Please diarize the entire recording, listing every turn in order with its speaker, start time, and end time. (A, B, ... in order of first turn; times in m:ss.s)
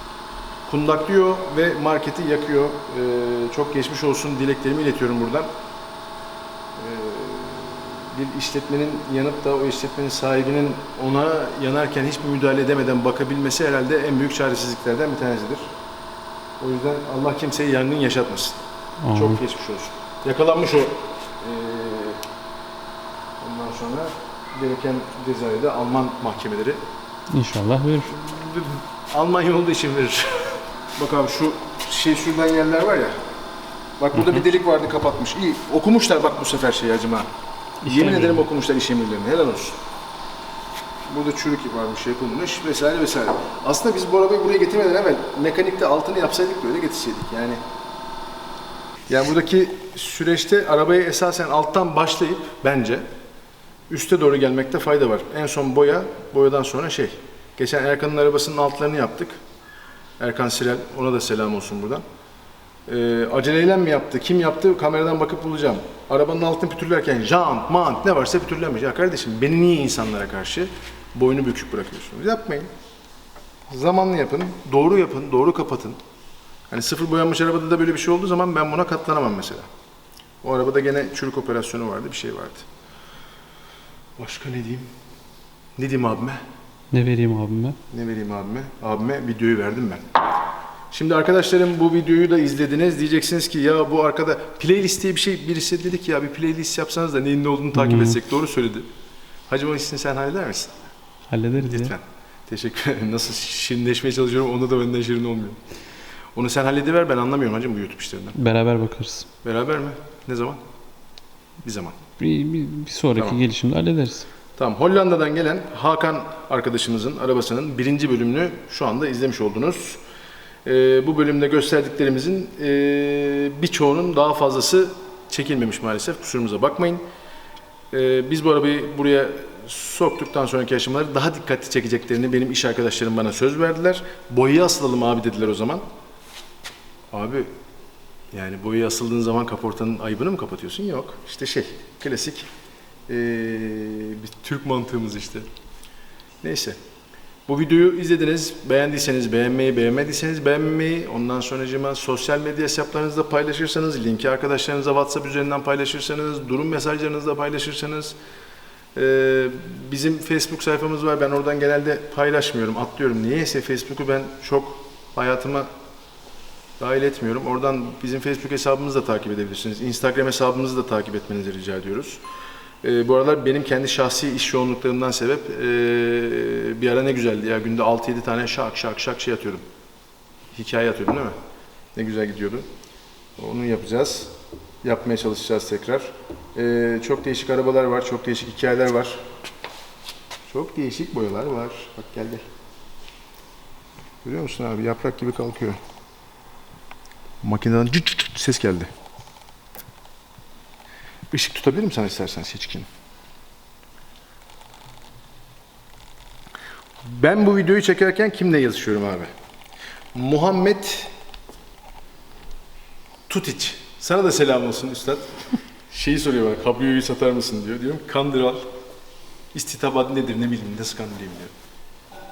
0:00.7-0:05.5 A
0:06.8-0:15.7 A
0:16.6-0:22.2 A
0:19.0-0:19.4 B
0:23.4-0:26.8 A
0:27.3-0:28.1 B
0:28.1-0:33.2 A
0:34.0-0:37.3 A
0:37.8-0:38.4 B
0:37.8-0:39.8 A
0:41.1-0:47.6 A
0:49.1-0:53.0 A
0:53.9-0:59.4 A
1:00.2-1:02.0 A
1:02.9-1:12.7 A
1:13.7-1:16.0 A
1:16.7-1:19.7 A
1:20.4-1:22.6 A
1:24.2-1:24.9 A
1:25.8-1:26.4 A
1:26.9-1:27.8 B
1:27.9-1:30.0 A
1:30.9-1:38.9 A
1:37.8-1:38.2 B
1:39.5-1:40.8 A
1:41.3-1:41.9 B
1:41.6-1:45.6 A
1:46.4-1:48.4 A
1:48.4-1:49.3 B
1:49.4-1:50.6 A
1:51.6-1:52.0 A
1:52.2-1:54.3 B
1:54.6-2:00.0 A
2:00.6-2:07.0 A
2:07.9-2:15.8 A
2:17.1-2:17.5 A
2:18.3-2:22.5 A
2:23.1-2:25.5 A
2:26.4-2:26.8 A
2:27.5-2:38.2 A
2:39.0-2:45.7 A
2:46.8-2:52.2 A
2:52.8-2:59.6 A
3:00.5-3:01.3 A
3:02.0-3:02.6 A
3:03.4-3:09.2 A
3:10.5-3:12.4 A
3:14.2-3:15.8 A
3:17.4-3:18.9 A
3:21.3-3:22.9 A
3:27.0-3:29.3 A
3:30.1-3:31.1 A
3:33.3-3:35.3 A
3:35.9-3:38.6 A
3:39.5-3:41.5 A